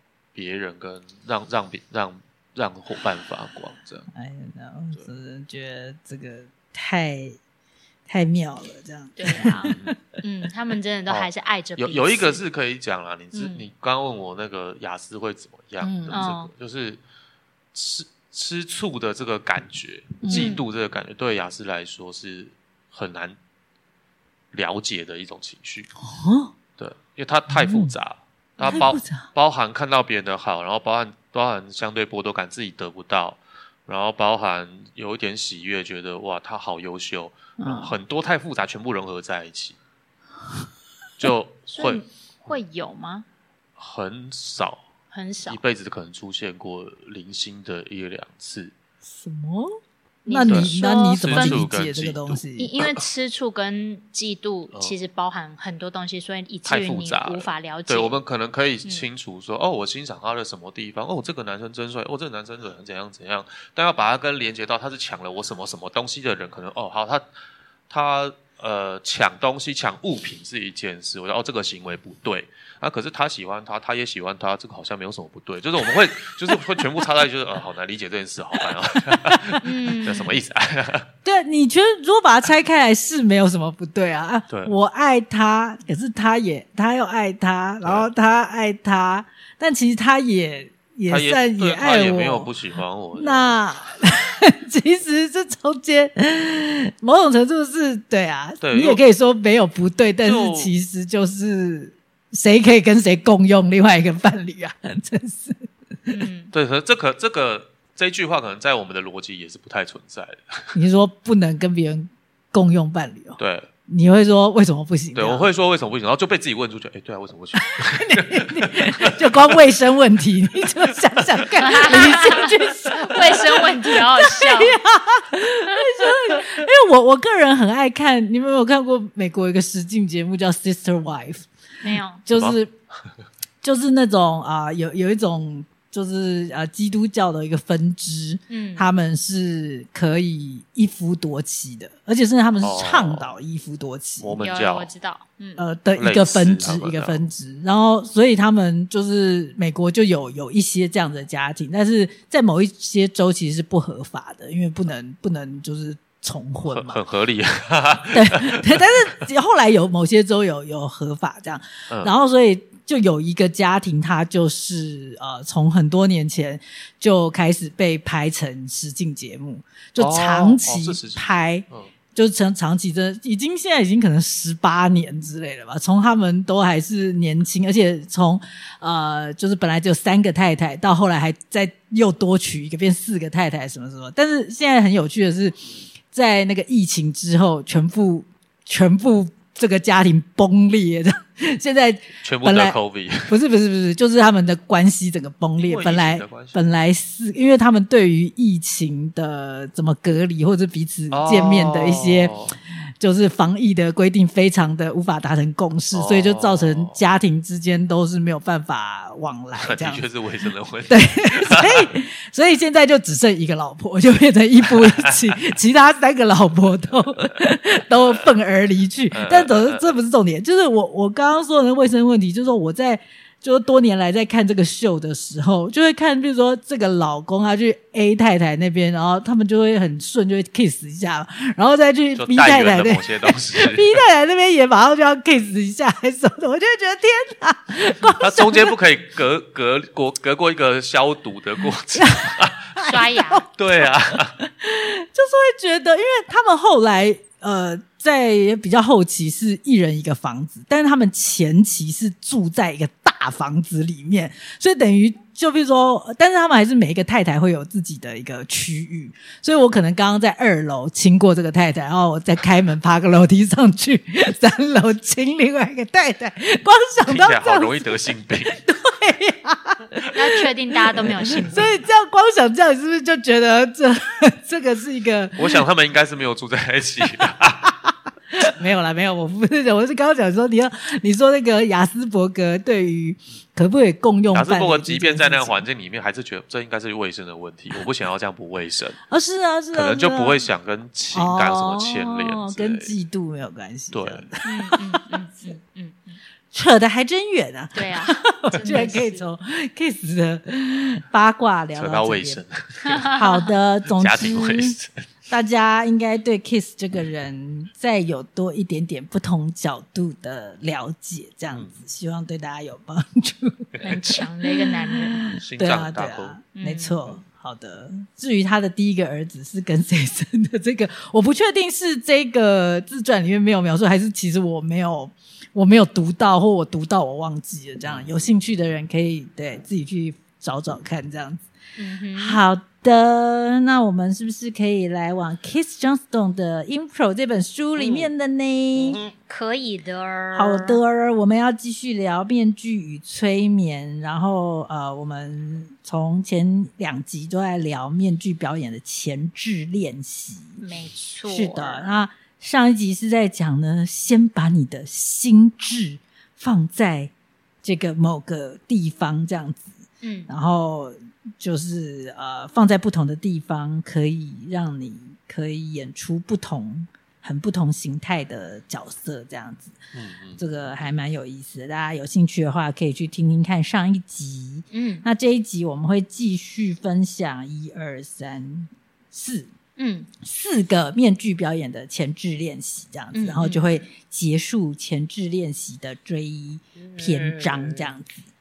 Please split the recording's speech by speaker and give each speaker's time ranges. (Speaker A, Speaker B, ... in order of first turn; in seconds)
Speaker A: 0.3-4.1, 9.6-9.9, 11.1-17.0, 17.7-23.4, 24.5-25.9, 26.8-39.8, 41.2-42.5, 43.8-44.9, 45.5-48.7, 50.5-53.0, 56.6-67.3, 67.9-81.1, 84.5-84.7, 91.1-93.6, 98.6-99.0, 100.2-100.7, 106.5-110.8, 113.4-113.7, 115.1-119.5, 132.3-132.6, 142.6-143.3, 144.2-144.9, 146.0-147.2, 156.7-159.0, 170.0-171.9, 192.2-193.3, 195.6-196.8, 201.1-202.6, 205.9-207.0, 209.6-211.9, 214.7-215.4, 219.1-219.9, 232.2-234.0, 238.2-242.7, 243.6-244.4, 267.1-268.6, 275.4-277.7, 284.3-289.0, 289.7-292.9, 293.9-294.3, 301.8-303.1, 303.9-305.0, 315.4-316.4, 327.9-328.3, 337.8-338.1, 338.8-339.1, 369.9-370.4
Speaker B: 4.1-7.4, 8.1-10.0, 15.8-16.2, 20.2-20.6, 26.0-26.5, 27.5-27.9, 28.6-29.3, 37.6-38.0, 49.0-49.8, 50.3-52.7, 79.1-79.6, 81.2-92.5, 93.2-106.2, 110.7-115.5, 117.7-132.7, 133.6-144.4, 145.6-157.0, 158.1-202.4, 203.0-210.0, 210.9-238.8, 241.9-270.4, 270.9-275.6, 277.2-277.7, 278.3-285.6, 289.1-290.4, 291.1-295.4, 296.5-302.4, 303.1-304.8, 305.3-331.4, 332.1-339.0, 340.4-350.6, 351.3-357.1, 357.6-359.8, 360.3-369.8, 370.4-379.5, 380.2-388.3
Speaker C: 9.2-12.4, 13.3-13.6, 16.1-16.5, 20.3-20.6, 41.7-43.3, 45.1-45.6, 50.2-51.6, 52.6-58.2, 79.6-80.3, 106.1-106.5, 121.6-124.8, 131.8-132.2, 138.5-138.9, 144.4-145.6, 242.8-243.4, 270.1-271.7, 294.4-296.2, 297.7-299.2, 302.9-303.5, 313.8-315.2, 316.6-317.0, 331.8-332.4, 339.3-340.8, 350.6-352.0, 360.0-360.3, 374.7-375.1, 379.8-380.1, 383.1-383.7